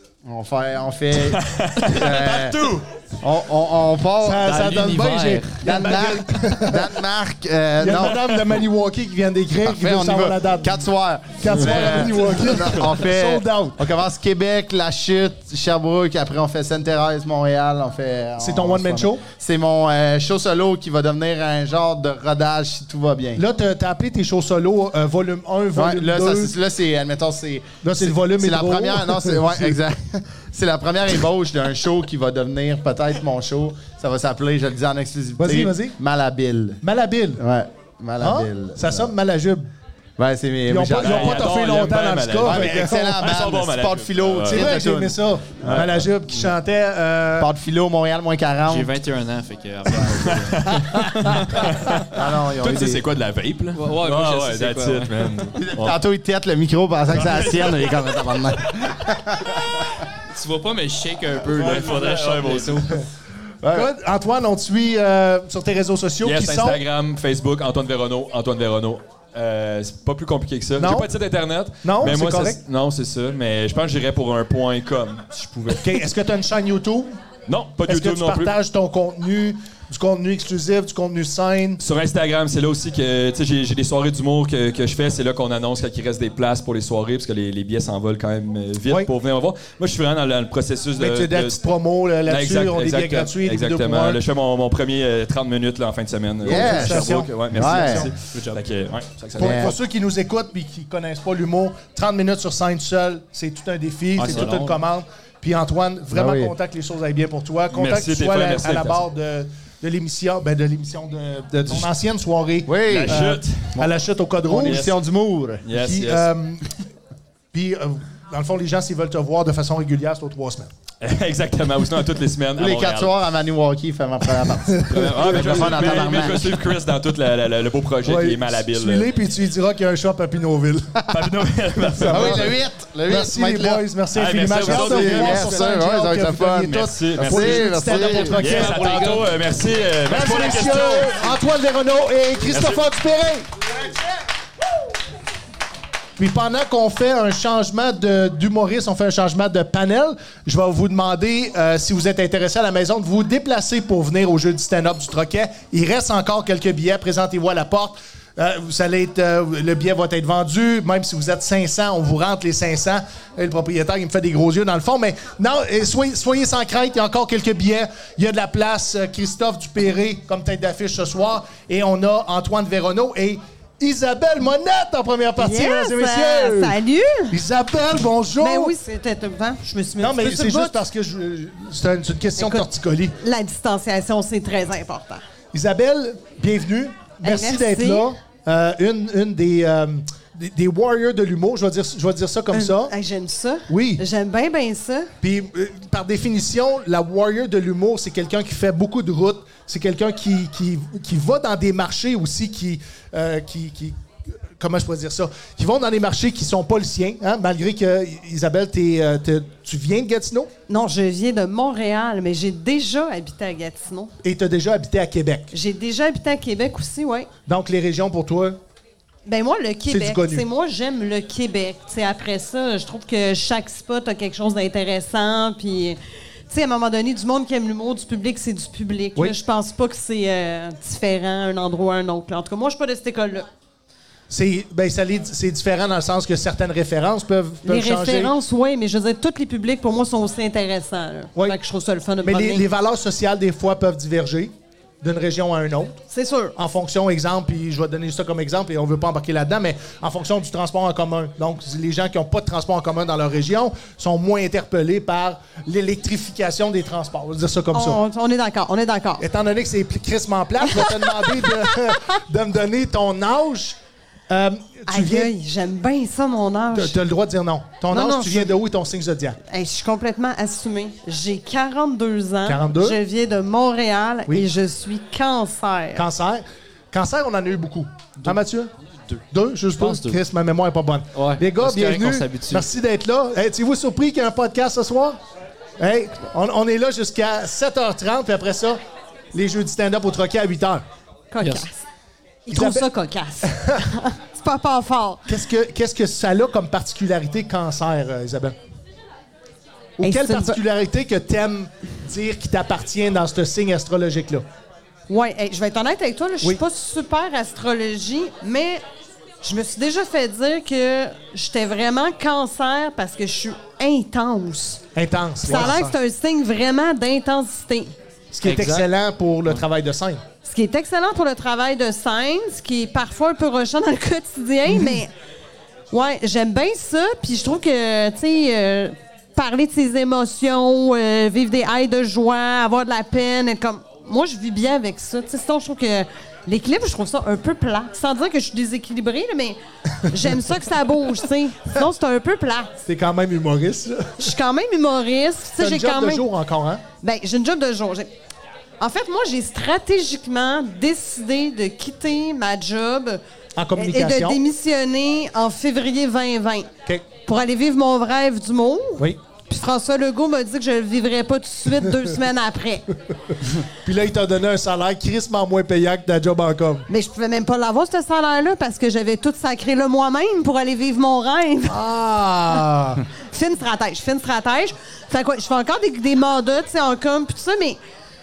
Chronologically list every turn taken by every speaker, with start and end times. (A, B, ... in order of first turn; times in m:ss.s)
0:00.2-0:04.7 A
0:01.2-0:02.8 B
0:04.2-0:06.9 C
0:04.4-0:05.9 D
0:05.6-0:08.2 A
0:07.8-0:10.9 C
0:07.9-0:08.4 B
0:09.6-0:23.4 A
0:11.4-0:13.9 C
0:18.4-0:19.2 C
0:23.4-0:26.5 C
0:25.7-0:36.8 A
0:27.8-0:29.8 C
0:35.4-0:36.0 C
0:36.8-0:37.4 C
0:37.4-0:39.1 A
0:38.2-0:39.7 C
0:40.2-0:41.6 A
0:40.7-0:43.2 C
0:41.0-0:44.8 B
0:42.4-0:45.9 A
0:44.5-0:47.5 C
0:45.6-0:46.5 B
0:47.4-0:48.9 A
0:48.7-0:51.5 D
0:50.2-0:56.0 B
0:52.1-0:53.0 A
0:53.8-0:55.3 D
0:55.6-1:00.0 A
0:57.1-0:58.0 B
1:00.3-1:03.0 D
1:01.5-1:03.0 B
1:03.6-1:03.9 A
1:03.7-1:06.8 C
1:06.2-1:16.0 B
1:10.8-1:11.1 C
1:11.8-1:12.6 C
1:15.8-1:17.2 C
1:17.5-1:18.5 B
1:17.8-1:21.8 C
1:21.8-1:31.6 B
1:31.0-1:34.2 C
1:32.3-1:39.8 B
1:36.4-1:38.1 C
1:36.4-1:38.1 A
1:38.3-1:38.6 D
1:39.4-1:54.9 C
1:39.4-1:39.8 A
1:44.2-1:44.8 D
1:44.2-1:44.7 B
1:46.1-1:46.6 A
1:47.7-1:49.1 B
1:52.7-1:53.9 A
1:52.9-1:53.8 B
1:54.5-1:55.7 A
1:54.6-1:54.9 B
1:55.6-1:56.3 B
1:55.7-1:56.7 C
1:57.5-2:00.7 C
2:01.0-2:03.2 B
2:02.6-2:06.6 A
2:04.8-2:06.3 C
2:04.9-2:09.1 B
2:08.0-2:11.0 C
2:11.1-2:12.6 B
2:12.0-2:12.5 C
2:12.0-2:13.8 A
2:13.1-2:18.8 C
2:14.1-2:15.8 B
2:14.5-2:18.4 A
2:16.7-2:21.4 B
2:18.3-2:19.3 D
2:20.1-2:23.5 C
2:22.5-2:22.9 B
2:26.2-2:56.8 C
2:55.4-2:57.4 E
2:57.3-2:58.8 C
2:58.4-3:00.8 E
3:00.0-3:03.2 C
3:02.4-3:02.7 E
3:03.2-3:05.2 E
3:05.5-3:12.9 C
3:07.2-3:08.1 E
3:12.5-3:15.1 E
3:13.7-3:14.0 C
3:15.2-3:24.0 C
3:24.6-3:30.5 C
3:30.7-3:34.1 E
3:34.2-3:35.5 C
3:35.5-3:37.3 E
3:37.5-3:38.6 C
3:39.3-3:46.0 E
3:39.9-3:40.5 C
3:46.5-3:53.5 E
3:54.3-3:58.3 C
3:57.6-4:02.6 E
4:02.2-4:06.0 C
4:06.1-4:06.5 E
4:06.6-4:18.0 C
4:17.7-4:19.2 E
4:19.2-4:23.8 C
4:20.6-4:22.0 E
4:24.3-4:25.3 C
4:24.9-4:27.0 E
4:26.7-4:29.4 C
4:27.9-4:28.6 E
4:29.5-4:36.0 E
4:32.5-4:33.0 C
4:36.0-4:38.7 C
4:39.3-4:45.2 C
4:39.8-4:40.2 D
4:41.1-4:42.7 D
4:45.8-4:48.8 C
4:49.3-4:50.8 C
4:51.3-4:51.8 E
4:51.4-4:51.7 D
4:52.5-4:55.3 E
4:52.5-4:52.9 C
4:53.4-4:53.8 C
4:55.3-4:58.6 C
5:00.0-5:04.4 C
5:00.0-5:00.6 E
5:05.1-5:08.8 E
5:09.4-5:14.8 E
5:14.9-5:16.0 C
5:15.4-5:17.9 E
5:18.3-5:20.2 C
5:18.4-5:18.9 D
5:20.4-5:25.1 E
5:24.7-5:25.0 C
5:25.9-5:42.8 E
5:42.9-5:44.3 C
5:44.2-5:46.3 E
5:45.6-5:46.8 C
5:47.0-5:48.1 E
5:48.8-5:53.2 E
5:53.6-5:54.4 C
5:53.8-6:02.9 E
6:03.8-6:06.9 C
6:06.9-6:11.8 E
6:11.7-6:13.0 C
6:13.1-6:17.8 E